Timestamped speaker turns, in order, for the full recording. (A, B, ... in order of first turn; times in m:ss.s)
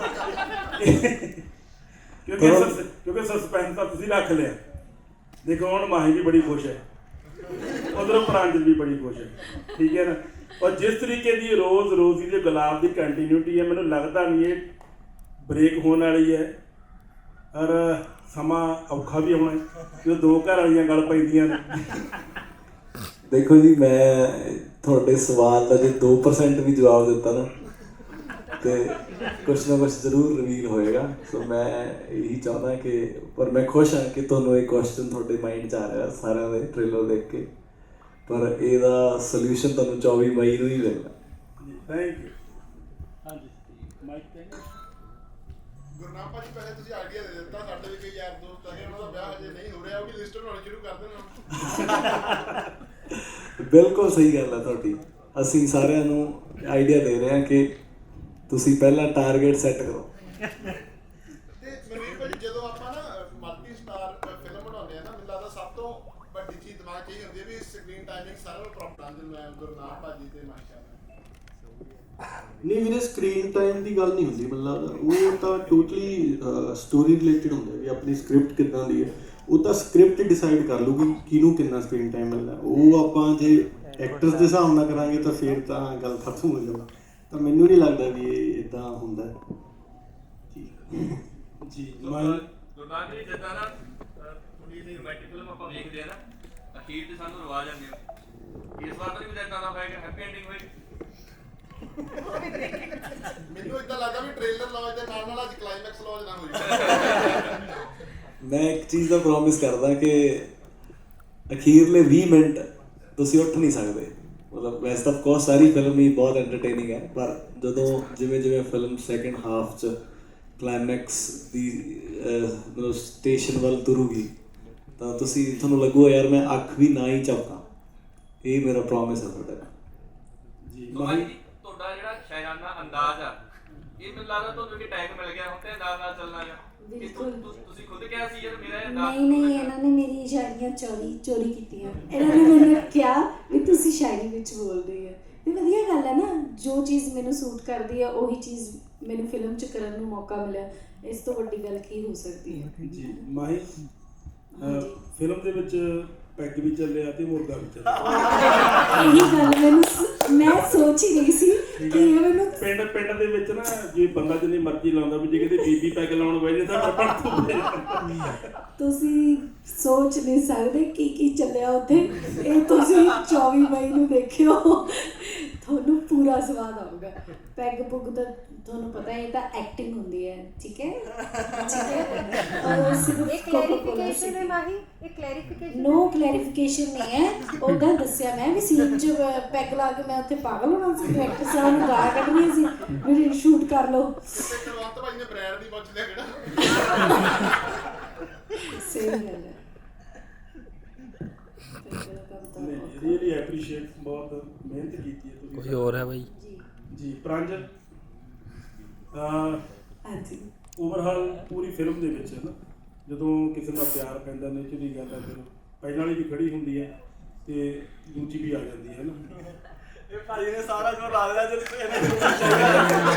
0:00.8-0:01.4 A
0:02.3-0:04.6 A
0:02.4-0:02.8 B
0:05.4-0:06.8 A
0:07.9-0:14.7 A
0:15.4-0:16.5 A
0:17.5-0:22.0 A
0:23.3-0:27.5 B
0:28.6-0:37.5 B
0:38.3-0:41.1 B
0:41.6-0:42.3 A
0:43.2-0:44.7 A
0:46.0-0:51.4 C
0:53.6-0:57.7 B
0:58.5-1:00.1 B
1:01.6-1:11.1 C
1:12.6-1:29.3 D
1:30.5-1:31.2 D
1:31.6-1:32.4 A
1:32.0-1:36.2 E
1:36.7-1:38.0 E
1:38.8-1:40.7 E
1:43.5-1:47.1 C
1:46.6-1:47.5 E
1:48.4-1:50.5 B
1:51.5-1:52.6 B
1:53.2-1:59.9 B
2:00.6-2:04.3 B
2:05.0-2:07.6 B
2:08.4-2:09.7 B
2:10.7-2:11.3 A
2:10.9-2:13.4 E
2:14.0-2:19.7 E
2:16.8-2:17.4 F
2:18.8-2:32.7 F
2:32.8-2:33.7 A
2:34.6-2:35.0 F
2:34.6-2:39.2 A
2:38.1-2:42.6 F
2:41.8-2:48.3 A
2:48.8-3:04.6 F
3:03.3-3:06.1 G
3:05.7-3:14.1 F
3:14.3-3:16.8 C
3:16.8-3:17.2 F
3:18.7-3:19.6 F
3:21.8-3:23.4 F
3:22.6-3:26.0 A
3:26.2-3:26.6 F
3:26.9-3:27.7 A
3:29.1-3:29.6 A
3:30.8-3:32.5 A
3:33.1-3:36.9 A
3:37.5-3:39.2 A
3:40.1-3:42.9 B
3:42.1-3:43.0 A